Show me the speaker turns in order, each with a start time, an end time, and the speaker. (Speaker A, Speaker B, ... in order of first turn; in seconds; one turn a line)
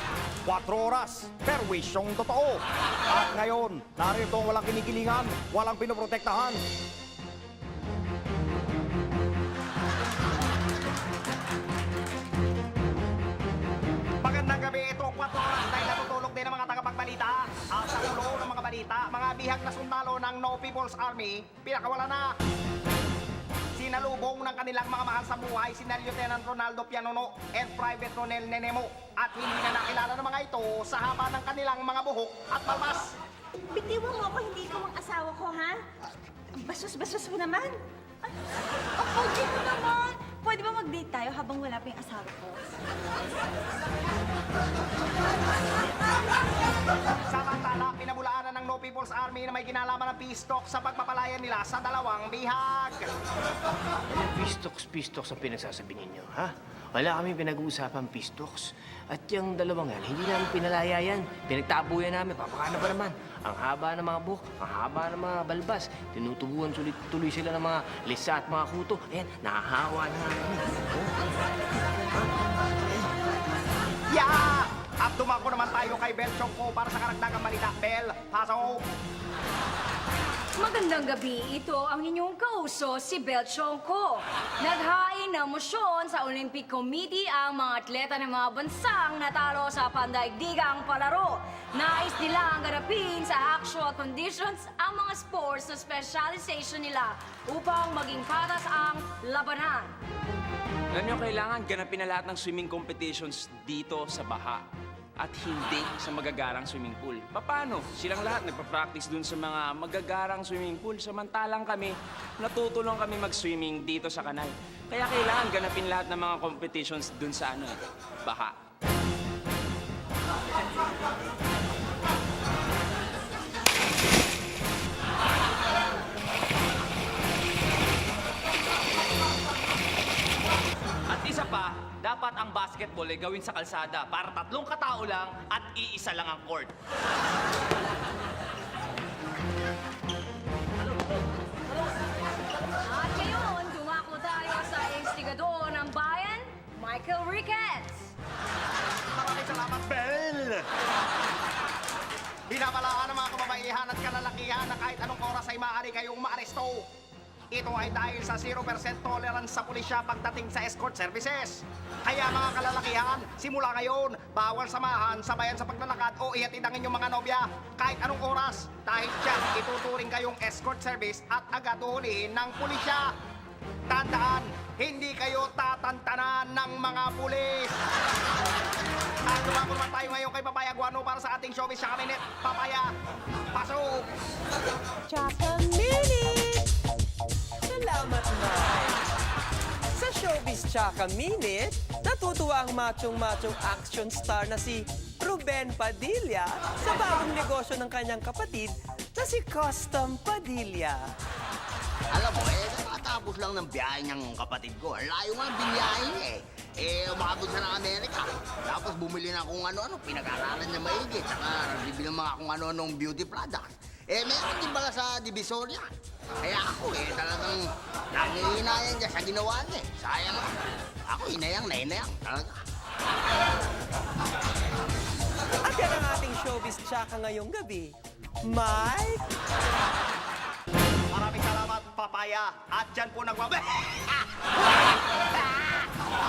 Speaker A: 0.5-6.6
Speaker A: 14.2-22.3
Speaker A: 23.8-33.1
Speaker B: 33.7-35.9
Speaker B: 36.5-38.3
Speaker B: 39.0-42.6
Speaker A: 47.3-53.1
Speaker C: 54.1-71.3
Speaker A: 74.1-78.8
Speaker D: 80.6-100.0
Speaker E: 100.9-104.6
Speaker E: 105.2-118.5
Speaker F: 131.1-136.7
Speaker D: 142.8-148.1
Speaker A: 149.1-150.6
Speaker A: 152.5-156.9
Speaker A: 157.5-173.1
Speaker A: 173.9-177.8
Speaker A: 179.2-182.9
Speaker A: 183.5-184.1
Speaker G: 185.1-186.7
Speaker G: 187.7-189.0
Speaker G: 189.9-201.1
Speaker H: 202.2-206.2
Speaker H: 206.8-215.8
Speaker H: 216.4-217.6
Speaker H: 218.1-220.4
Speaker H: 221.1-222.5
Speaker G: 225.7-227.9
Speaker G: 228.4-229.2
Speaker A: 231.1-234.2
Speaker A: 235.4-235.7